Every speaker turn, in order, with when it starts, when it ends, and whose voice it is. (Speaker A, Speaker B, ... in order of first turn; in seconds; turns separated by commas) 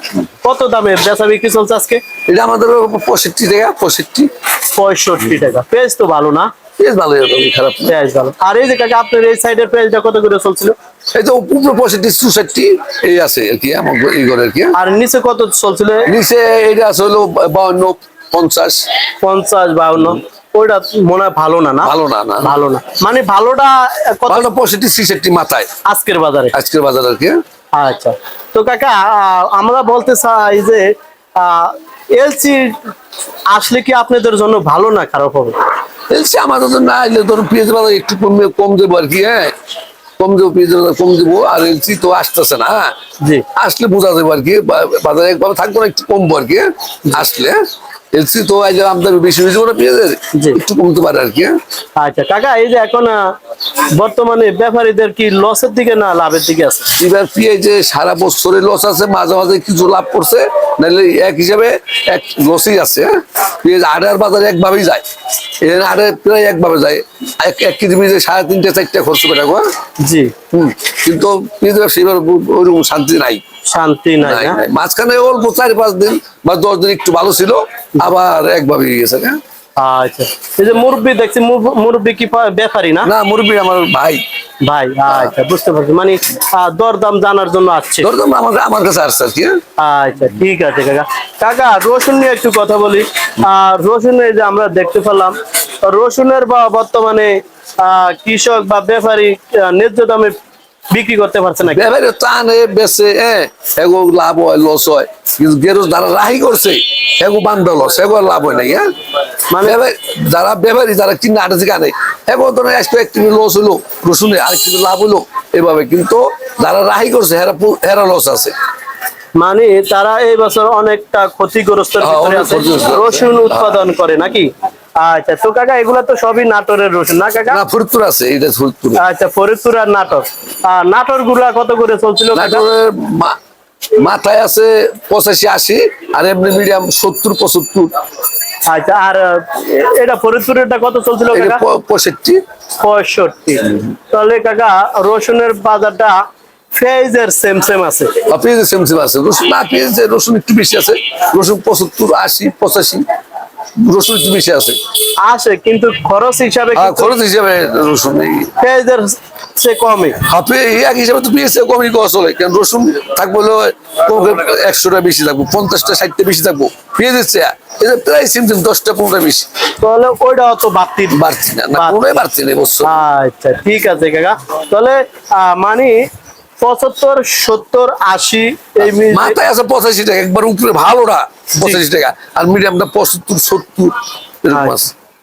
Speaker A: 0.4-2.0, Speaker B: 2.3-4.3, Speaker A: 4.7-6.5, Speaker B: 6.8-7.9, Speaker A: 7.9-10.8, Speaker B: 11.2-14.7, Speaker A: 14.8-16.1, Speaker B: 16.1-18.8, Speaker A: 19.2-24.5, Speaker B: 21.8-22.5, Speaker B: 24.3-25.7, Speaker A: 25.9-26.6, Speaker B: 26.5-27.4, Speaker A: 27.8-32.9, Speaker A: 33.5-35.5, Speaker B: 36.1-39.5, Speaker B: 40.2-42.9, Speaker B: 43.6-47.6, Speaker B: 48.1-51.5, Speaker A: 50.3-50.6, Speaker A: 52.0-53.3, Speaker A: 53.9-56.9, Speaker B: 57.0-63.1, Speaker B: 63.6-65.0, Speaker B: 65.6-69.7, Speaker A: 70.0-70.3, Speaker B: 70.5-73.4, Speaker A: 73.7-74.6, Speaker B: 74.2-79.4, Speaker A: 79.8-83.1, Speaker B: 83.1-84.2, Speaker A: 84.6-88.1, Speaker B: 88.0-89.6, Speaker A: 89.8-100.3, Speaker A: 100.9-101.8, Speaker B: 101.7-108.9, Speaker A: 109.5-109.8, Speaker B: 109.6-118.5, Speaker A: 119.3-127.6, Speaker B: 122.0-123.8, Speaker B: 127.5-129.0, Speaker A: 129.0-132.6, Speaker B: 132.3-133.3, Speaker B: 134.0-137.9, Speaker A: 138.7-141.6, Speaker B: 141.3-142.4, Speaker A: 142.8-146.2, Speaker A: 146.7-148.1, Speaker B: 148.3-153.0, Speaker B: 153.8-154.8, Speaker A: 155.2-157.2, Speaker B: 156.8-158.5, Speaker A: 158.6-160.2, Speaker B: 160.2-169.4, Speaker A: 169.8-171.2, Speaker B: 171.1-172.9, Speaker A: 171.7-172.0, Speaker A: 172.8-176.0, Speaker A: 176.6-179.3, Speaker B: 178.8-184.9